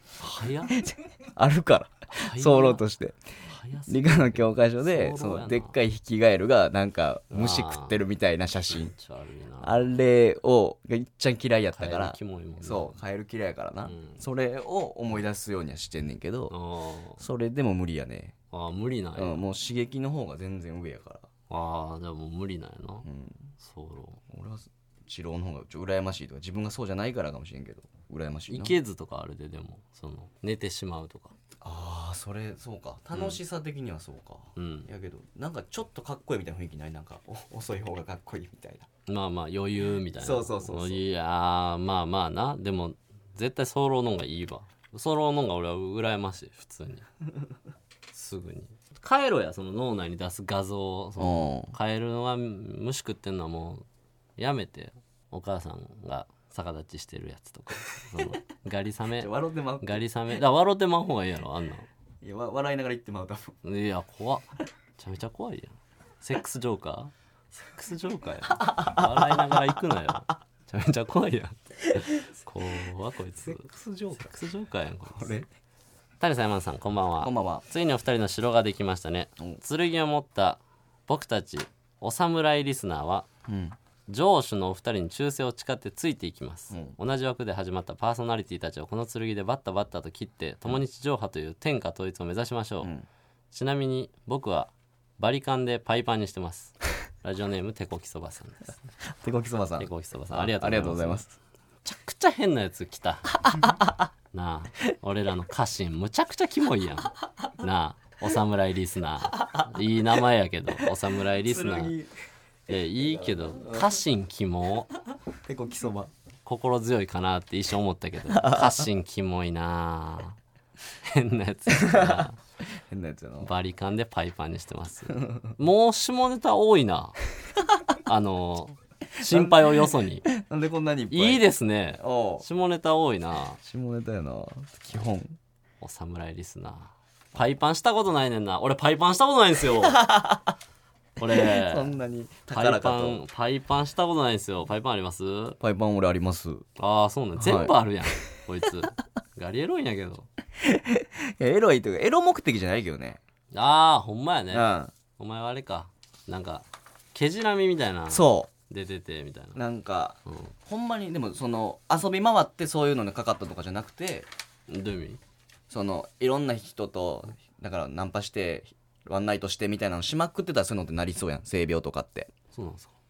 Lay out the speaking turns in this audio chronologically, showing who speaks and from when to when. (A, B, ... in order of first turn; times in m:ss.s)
0:00.2-0:00.8 A
0:00.7-0:03.2 B
0:02.1-0:02.8 A
0:03.4-0:05.8 A
0:03.9-0:08.9 B
0:07.3-0:08.0 A
0:08.7-0:09.9 A
0:09.6-0:16.5 B
0:11.7-0:13.0 A
0:13.8-0:14.2 A
0:16.5-0:17.2 A
0:17.2-0:18.4 B
0:18.5-0:19.4 A
0:19.2-0:21.3 B
0:21.5-0:23.1 A
0:23.0-0:23.5 B
0:23.6-0:24.2 A
0:24.3-0:28.8 B
0:28.5-0:31.4 A
0:31.6-0:38.9 B
0:33.1-0:33.4 A
0:34.6-0:34.9 A
0:39.1-0:47.1 A
0:40.2-0:41.0 B
0:48.1-0:53.8 A
0:51.2-0:51.7 B
0:54.4-1:01.9 A
0:59.2-1:00.0 B
1:02.2-1:03.6 B
1:03.6-1:15.4 A
1:08.6-1:09.7 B
1:13.4-1:14.3 B
1:15.1-1:15.5 B
1:16.2-1:23.3 A
1:17.2-1:17.6 B
1:23.5-1:23.8 B
1:24.1-1:32.9 A
1:26.7-1:27.0 B
1:32.8-1:33.1 B
1:33.5-1:38.8 A
1:39.0-1:41.4 B
1:39.8-1:41.2 A
1:41.8-1:43.6 A
1:43.5-1:43.9 B
1:44.3-1:52.0 A
1:49.3-1:49.7 B
1:50.7-1:52.1 B
1:52.7-1:54.9 A
1:52.7-1:54.0 B
1:55.4-1:56.1 B
1:56.4-2:00.4 A
1:58.3-1:58.8 B
2:01.0-2:02.4 A
2:01.7-2:03.5 B
2:03.4-2:07.2 A
2:05.1-2:05.6 B
2:08.0-2:10.3 A
2:09.2-2:11.4 B
2:11.1-2:13.6 A
2:12.0-2:12.5 B
2:13.6-2:15.4 B
2:15.8-2:20.1 A
2:19.8-2:20.6 B
2:21.2-2:21.9 A
2:21.3-2:23.2 B
2:22.5-2:25.6 A
2:25.6-2:26.6 B
2:26.8-2:30.3 A
2:27.4-2:28.2 B
2:30.6-2:33.2 B
2:33.5-2:39.6 A
2:34.5-2:34.9 B
2:38.1-2:38.5 B
2:39.6-2:44.3 B
2:40.3-2:40.5 A
2:44.7-2:45.2 A
2:45.7-2:52.3 B
2:52.5-2:52.9 A